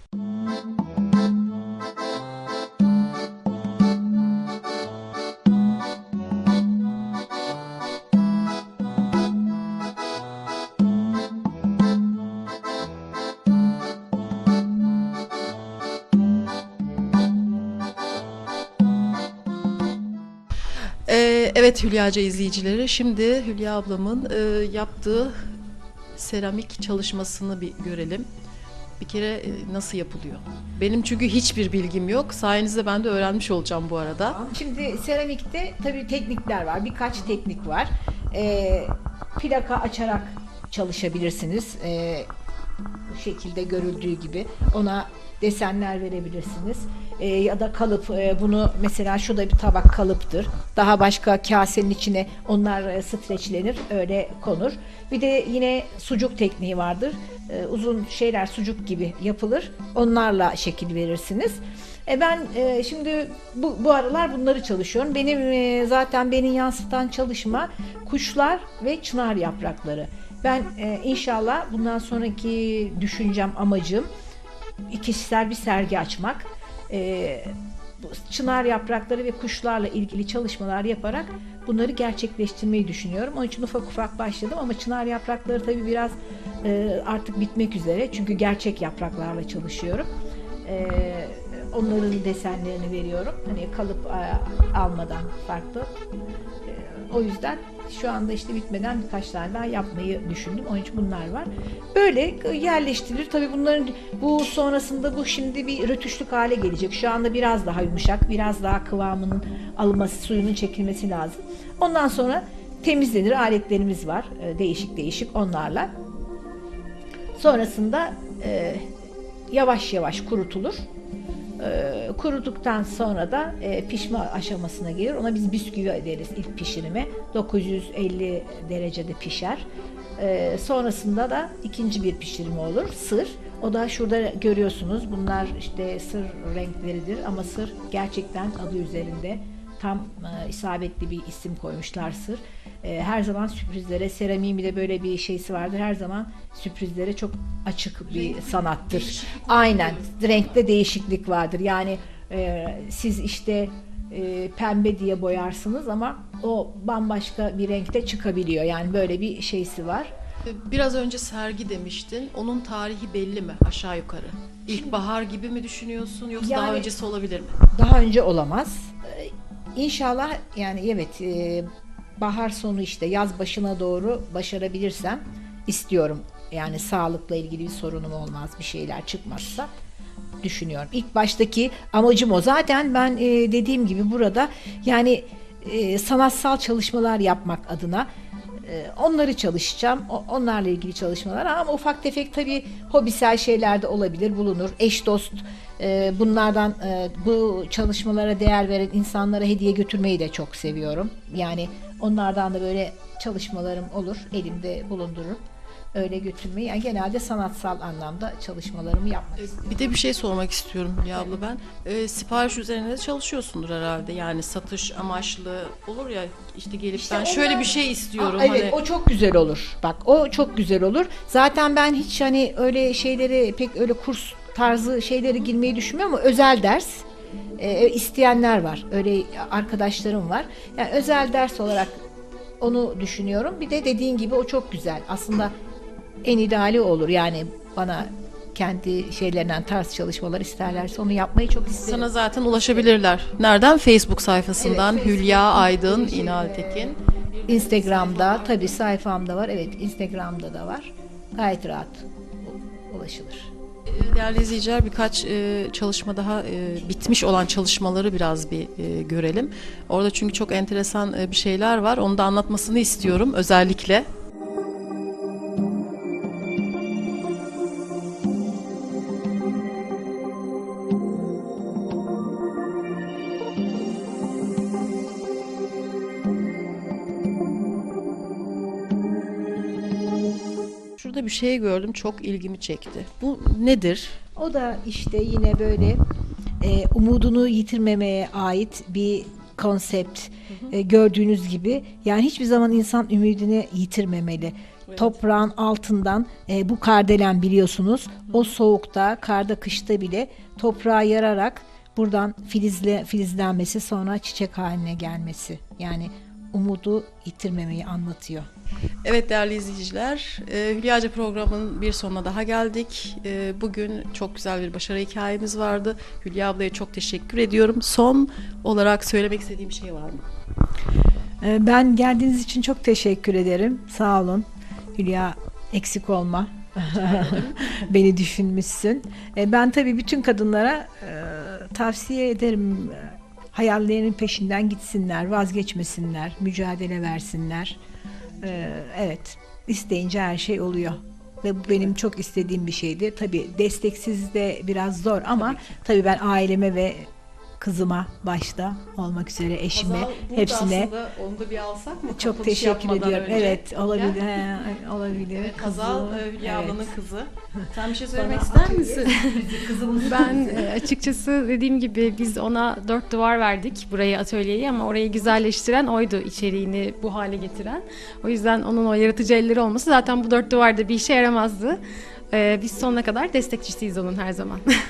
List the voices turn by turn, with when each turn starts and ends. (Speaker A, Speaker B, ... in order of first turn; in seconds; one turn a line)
Speaker A: 21.1-25.4
Speaker A: 26.2-28.3
Speaker A: 29.0-34.4
Speaker B: 34.2-42.3
Speaker B: 43.1-74.1
Speaker B: 74.9-90.1
Speaker B: 90.6-95.9
Speaker B: 96.7-115.9
Speaker B: 117.4-118.9
Speaker B: 119.5-120.9
Speaker B: 121.6-129.7
Speaker B: 130.2-160.1
Speaker A: 148.1-150.6
Speaker A: 160.5-167.6
Speaker B: 166.4-166.9
Speaker B: 167.7-179.7
Speaker B: 180.4-188.1
Speaker B: 188.6-205.4
Speaker B: 205.9-209.9
Speaker A: 209.4-218.8
Speaker B: 216.9-227.1
Speaker B: 227.6-232.0
Speaker B: 232.6-235.5
Speaker B: 236.2-243.0
Speaker A: 241.7-248.8
Speaker B: 244.6-253.5
Speaker A: 253.9-264.1
Speaker A: 281.0-284.2
Speaker B: 284.4-286.0
Speaker B: 286.6-308.5
Speaker A: 294.9-295.2
Speaker A: 309.0-320.2
Speaker B: 321.4-337.8
Speaker A: 326.9-327.7
Speaker B: 338.4-350.9
Speaker A: 349.7-354.2
Speaker B: 352.2-356.9
Speaker A: 355.4-359.1
Speaker B: 358.1-360.7
Speaker C: 358.8-371.8
Speaker C: 372.3-374.7